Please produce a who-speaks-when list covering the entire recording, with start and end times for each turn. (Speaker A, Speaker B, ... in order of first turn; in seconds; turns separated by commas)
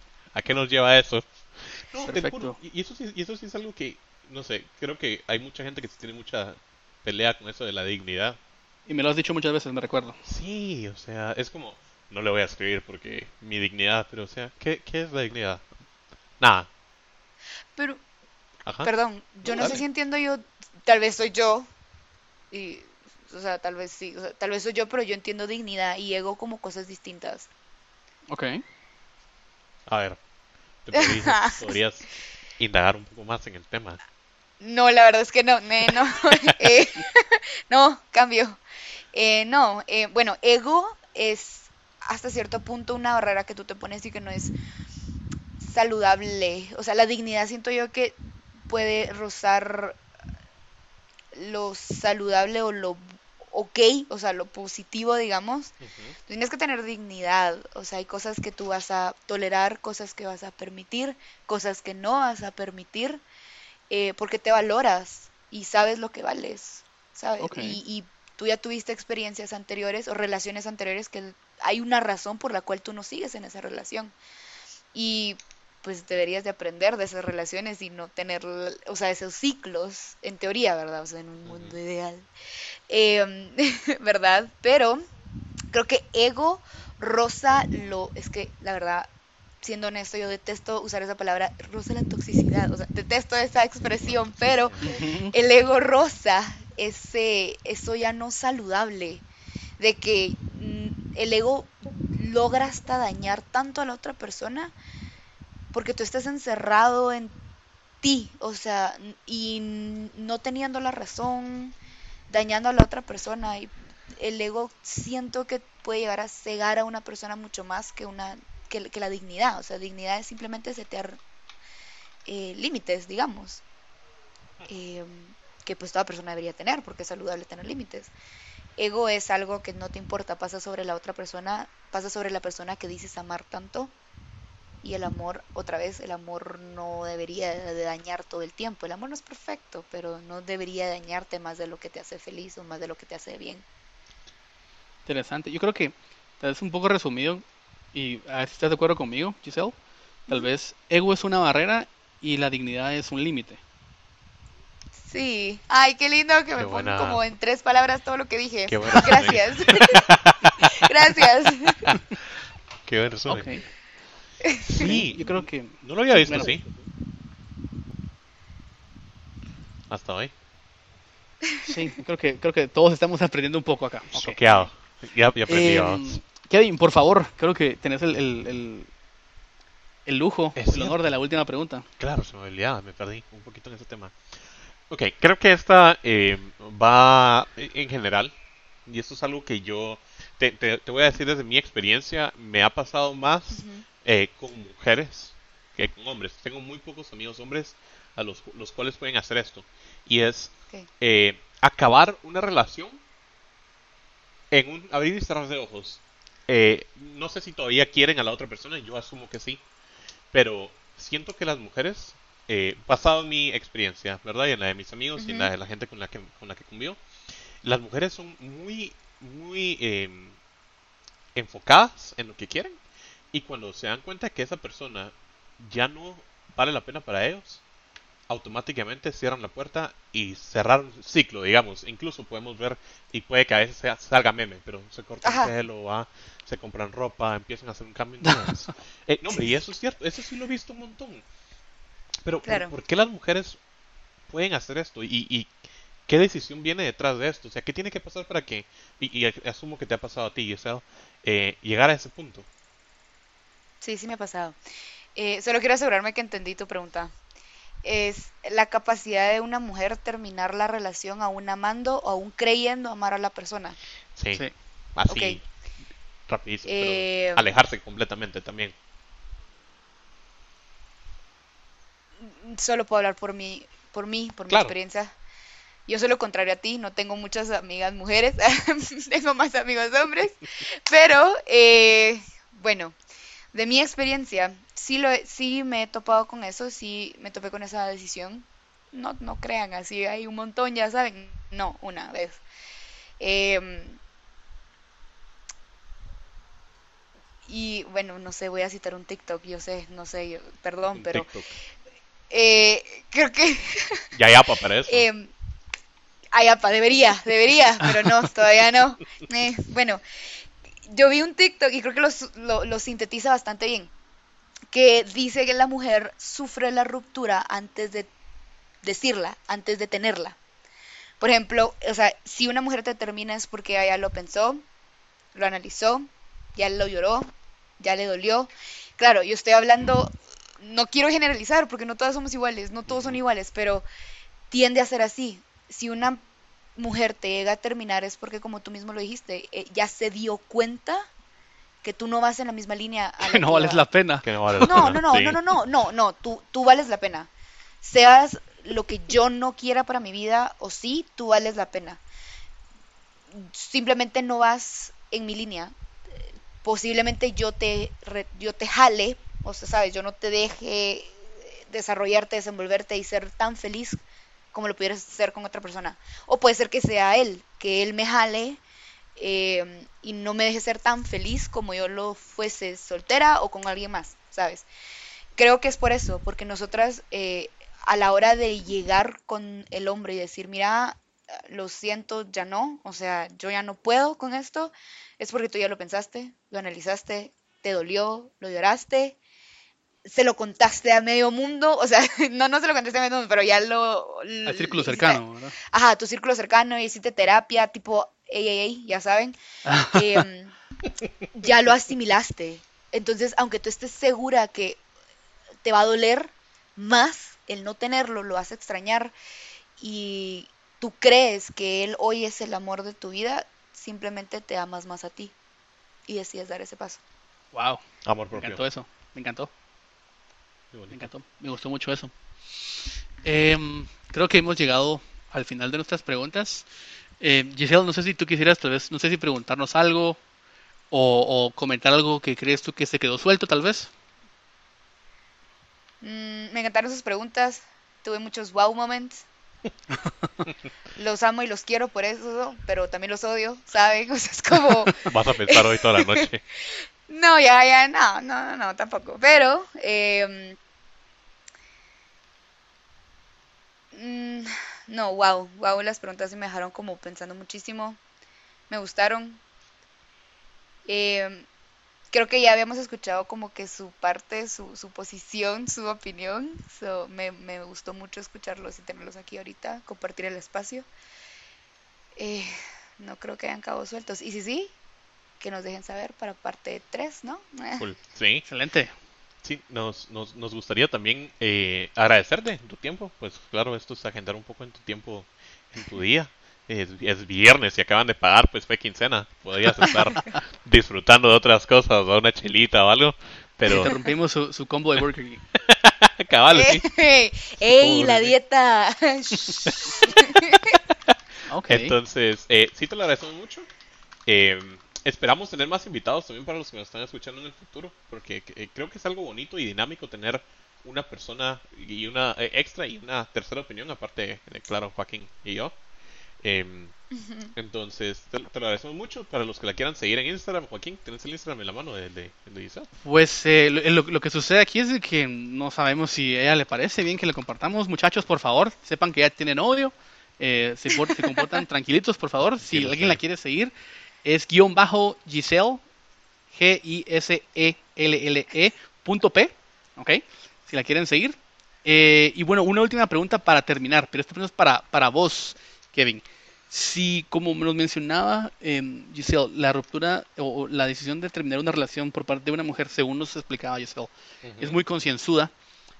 Speaker A: 0.3-8.4, Speaker B: 2.0-2.6, Speaker B: 8.9-10.2, Speaker A: 10.2-15.6, Speaker A: 16.4-16.7, Speaker C: 17.7-18.0, Speaker A: 18.6-18.9, Speaker C: 18.8-21.7, Speaker A: 19.5-19.8, Speaker C: 22.5-27.5, Speaker B: 28.3-28.6, Speaker A: 29.9-30.2, Speaker A: 30.8-32.1, Speaker C: 30.9-31.8, Speaker A: 32.6-34.0, Speaker C: 34.6-38.6, Speaker C: 39.1-44.5, Speaker C: 45.6-50.0, Speaker C: 51.3-55.8, Speaker A: 55.8-56.1, Speaker C: 56.3-63.2, Speaker C: 63.9-74.1, Speaker B: 67.4-67.8, Speaker C: 74.9-82.3, Speaker A: 81.4-81.8, Speaker C: 82.9-85.0, Speaker C: 85.7-89.1, Speaker C: 89.6-99.2, Speaker A: 94.0-95.0, Speaker B: 94.8-95.3, Speaker C: 99.8-104.7, Speaker C: 105.7-107.3, Speaker C: 108.0-111.8, Speaker C: 112.3-121.2, Speaker C: 122.2-123.6, Speaker C: 124.7-128.1, Speaker C: 128.8-133.9, Speaker C: 134.8-143.6, Speaker B: 145.1-149.8, Speaker B: 150.3-153.6, Speaker C: 154.9-160.1, Speaker A: 156.5-157.2, Speaker A: 158.7-162.0, Speaker C: 160.6-161.9, Speaker A: 162.8-163.6, Speaker B: 163.3-163.7, Speaker C: 164.4-164.8, Speaker A: 164.6-166.7, Speaker B: 164.7-166.5, Speaker A: 169.9-170.3, Speaker B: 171.6-174.7, Speaker A: 174.1-176.2, Speaker B: 175.5-178.9, Speaker B: 180.1-181.9, Speaker A: 180.5-181.0, Speaker A: 182.0-184.2, Speaker A: 184.9-188.3, Speaker A: 188.8-203.0, Speaker C: 193.5-193.8, Speaker A: 204.5-209.6, Speaker A: 210.3-217.0, Speaker C: 215.2-215.5, Speaker A: 217.6-220.4, Speaker A: 221.3-222.8, Speaker A: 223.3-227.6, Speaker A: 228.3-241.2, Speaker C: 235.2-235.5, Speaker A: 242.2-243.6, Speaker C: 242.4-242.7, Speaker A: 244.3-245.5, Speaker A: 246.1-252.5, Speaker C: 253.8-254.6, Speaker C: 255.1-257.1, Speaker C: 257.8-263.8, Speaker A: 264.1-264.4, Speaker A: 264.9-265.4, Speaker C: 265.1-265.4, Speaker A: 266.3-268.7, Speaker C: 266.6-267.5, Speaker C: 272.2-275.1, Speaker A: 274.5-274.7, Speaker C: 275.9-283.0, Speaker C: 283.5-292.4, Speaker C: 293.2-294.0, Speaker C: 297.4-301.3, Speaker A: 300.9-301.5, Speaker C: 302.3-304.0, Speaker A: 304.1-305.1, Speaker C: 304.9-305.3, Speaker C: 306.3-310.0, Speaker C: 310.9-313.9, Speaker C: 314.7-318.1, Speaker C: 318.8-320.4, Speaker C: 321.2-324.6, Speaker C: 325.3-333.9, Speaker A: 332.9-333.2, Speaker C: 334.5-336.2, Speaker C: 336.8-341.1, Speaker C: 341.8-343.9, Speaker B: 343.2-344.3, Speaker A: 344.2-345.4, Speaker C: 344.6-347.3, Speaker C: 347.8-352.0, Speaker C: 353.3-364.0, Speaker C: 364.5-368.6, Speaker C: 369.1-374.6, Speaker C: 375.3-389.2, Speaker C: 390.0-399.4, Speaker B: 394.4-395.5, Speaker B: 399.6-400.2, Speaker C: 399.9-400.5, Speaker C: 401.3-404.8, Speaker C: 405.6-409.1, Speaker C: 409.8-415.3, Speaker C: 416.1-417.0, Speaker B: 417.5-417.8, Speaker A: 418.0-418.6, Speaker B: 418.4-419.5, Speaker A: 420.7-421.1, Speaker B: 420.9-422.1, Speaker B: 423.2-426.7, Speaker B: 427.2-430.2, Speaker B: 430.9-433.9, Speaker C: 436.0-439.2, Speaker C: 440.9-446.2, Speaker A: 445.0-446.4, Speaker C: 447.1-450.6, Speaker C: 453.9-458.0, Speaker C: 458.7-459.4, Speaker C: 460.9-461.5, Speaker C: 462.1-470.9, Speaker C: 472.1-474.7, Speaker C: 475.4-477.9, Speaker A: 477.8-478.4, Speaker B: 478.4-478.9, Speaker A: 479.4-494.0, Speaker B: 493.7-495.4, Speaker A: 495.6-496.9, Speaker C: 496.5-500.8, Speaker A: 497.6-498.3, Speaker A: 499.6-501.1, Speaker B: 501.5-501.9, Speaker A: 501.7-503.7, Speaker A: 504.2-515.7, Speaker A: 516.4-516.9, Speaker A: 517.5-522.9, Speaker B: 523.0-533.7, Speaker A: 532.6-533.2, Speaker B: 534.2-535.8, Speaker B: 536.5-555.5, Speaker A: 554.4-554.8